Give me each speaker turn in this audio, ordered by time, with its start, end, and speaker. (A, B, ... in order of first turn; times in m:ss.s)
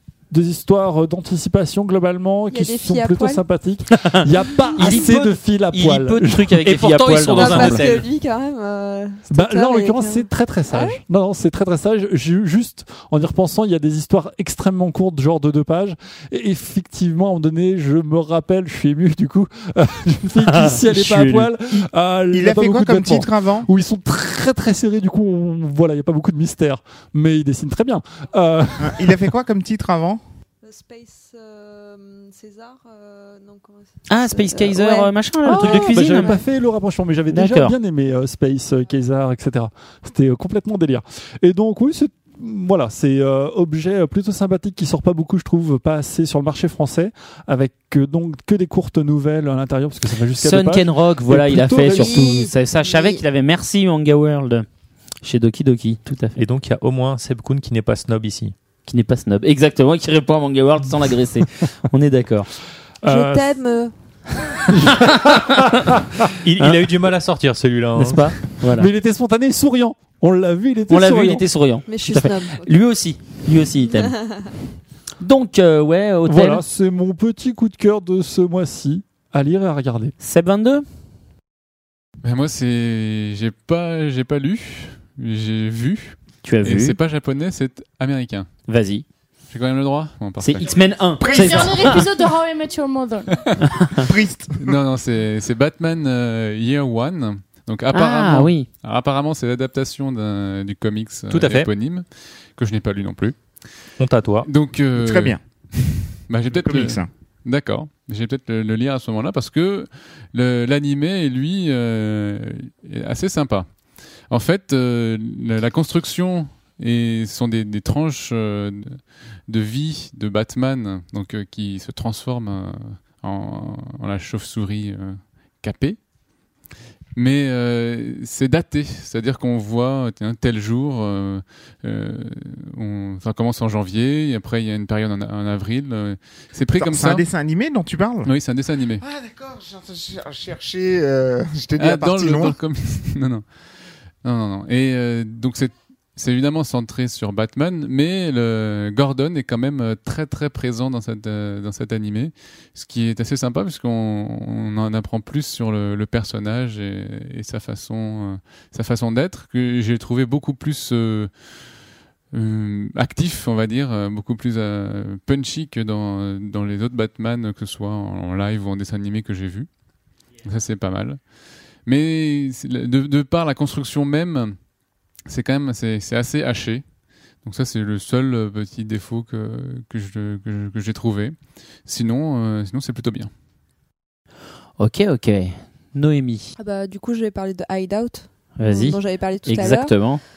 0:00.3-0:06.8 A
0:02.5-0:03.4 B
0:04.8-0:08.0 C
0:04.8-0:05.0 B
0:06.6-0:08.0 D
0:07.3-0:11.0 B
0:09.3-0:29.0 A
0:20.4-0:21.5 C
0:22.3-0:23.7 E
0:28.8-0:30.2 E
0:30.6-0:36.4 B
0:34.1-0:36.4 C
0:35.4-0:52.4 A
0:37.3-0:37.7 C
0:50.4-0:54.6 C
0:51.9-0:53.2 B
0:55.2-0:56.4 C
0:56.4-0:58.5 D
0:58.8-1:02.5 C
1:03.0-1:03.5 A
1:03.0-1:03.9 B
1:04.7-1:06.3 A
1:04.9-1:05.6 C
1:06.4-1:08.4 D
1:06.6-1:06.9 C
1:08.0-1:08.9 C
1:08.6-1:11.5 A
1:10.9-1:14.2 C
1:11.9-1:12.7 B
1:15.2-1:16.6 C
1:16.2-1:20.1 A
1:20.2-1:20.8 C
1:22.2-1:28.5 F
1:26.4-1:27.0 C
1:28.7-1:29.0 C
1:29.5-1:30.8 F
1:30.4-1:32.1 C
1:31.2-1:33.4 G
1:31.3-1:32.0 E
1:33.7-1:34.0 C
1:34.0-1:34.7 E
1:34.6-1:43.4 F
1:37.9-1:38.7 C
1:41.3-1:41.7 D
1:44.0-1:44.5 D
1:44.4-1:45.4 F
1:45.0-1:45.4 E
1:46.3-1:53.7 F
1:46.5-1:47.1 E
1:54.3-2:06.0 F
2:07.1-2:17.2 F
2:16.7-2:18.3 E
2:18.2-2:19.0 F
2:19.0-2:22.5 E
2:21.8-2:23.4 F
2:24.2-2:41.3 F
2:42.3-2:49.7 F
2:50.4-2:51.2 F
2:51.8-2:54.6 F
2:55.3-2:56.8 F
2:57.4-3:03.3 F
3:04.8-3:06.5 C
3:06.6-3:10.0 B
3:08.6-3:10.2 C